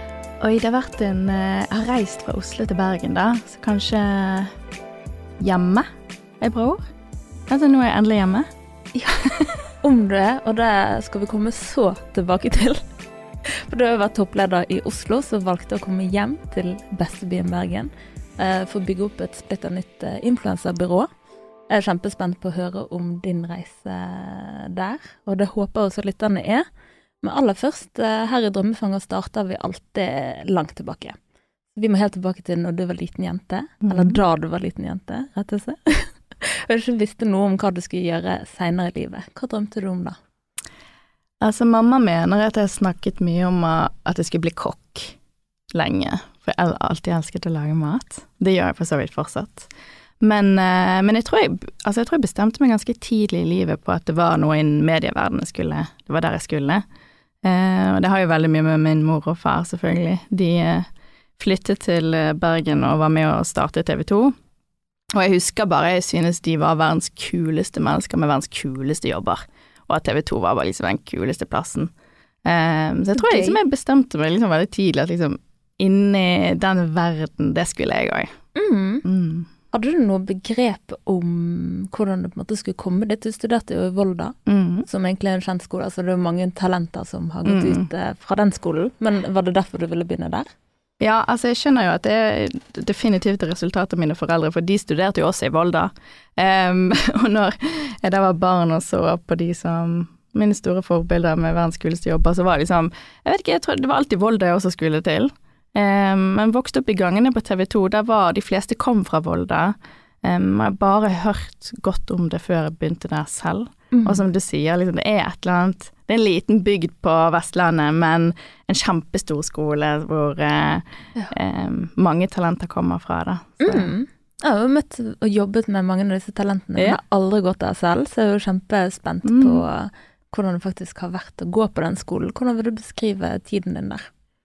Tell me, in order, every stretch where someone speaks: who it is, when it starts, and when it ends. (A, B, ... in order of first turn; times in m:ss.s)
0:00.4-0:04.6 A
0:05.4-0:05.9 A
0:06.4-0:06.8 A
0:07.5-0:08.5 A
0:09.0-0:09.2 B
0:09.2-0:09.5 A
0:09.8-0:12.8 B
0:13.5-0:21.1 B
0:21.7-0:26.7 B
0:27.2-0:31.2 B
0:31.7-0:40.2 B
0:33.8-0:34.2 A
0:41.4-0:45.2 A
0:45.7-0:49.7 A
0:50.2-0:56.8 A
0:57.4-1:04.3 A
1:05.1-1:11.9 A
1:12.4-1:18.3 A
1:13.1-1:13.6 B
1:18.6-1:19.1 B
1:19.0-1:19.5 A
1:19.7-1:24.4 B
1:24.5-1:24.9 A
1:24.9-1:30.5 B
1:27.4-1:27.9 A
1:31.0-2:03.9 A
1:53.9-1:54.2 B
2:03.6-2:14.1 B
2:09.2-2:09.6 A